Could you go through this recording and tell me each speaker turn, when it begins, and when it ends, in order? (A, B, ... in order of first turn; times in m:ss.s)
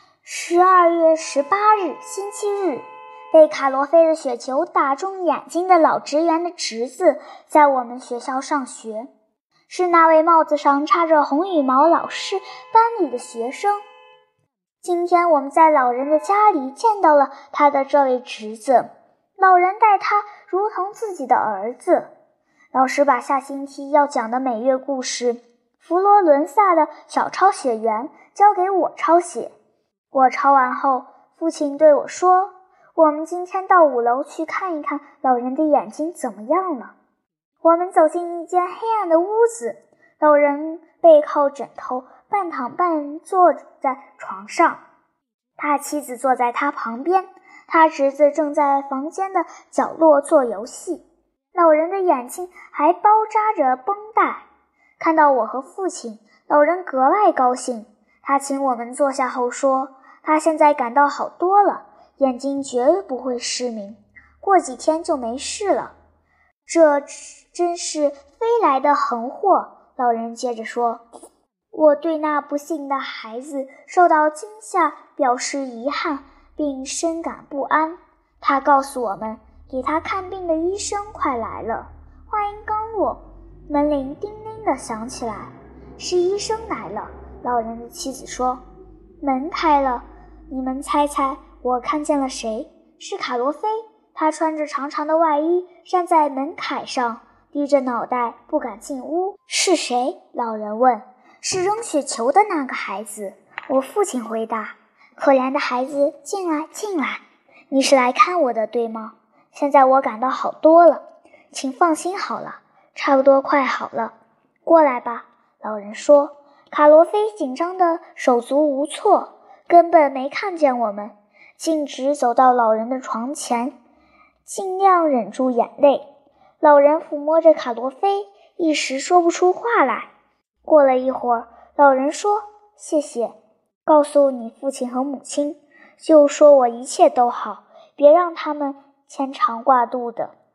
0:00.2-0:09.1 A
0:09.7-0:13.8 A
0:14.8-0:22.1 A
0:22.7-0:29.5 A
0:30.1-0:36.9 A
0:37.6-0:44.8 A
0:45.6-0:54.4 A
0:55.0-1:05.9 A
1:06.6-1:11.0 A
1:11.7-1:28.6 A
1:29.2-2:03.7 A
2:04.4-2:06.0 A
2:06.6-2:10.1 A
2:10.6-2:13.3 A
2:13.8-2:20.3 A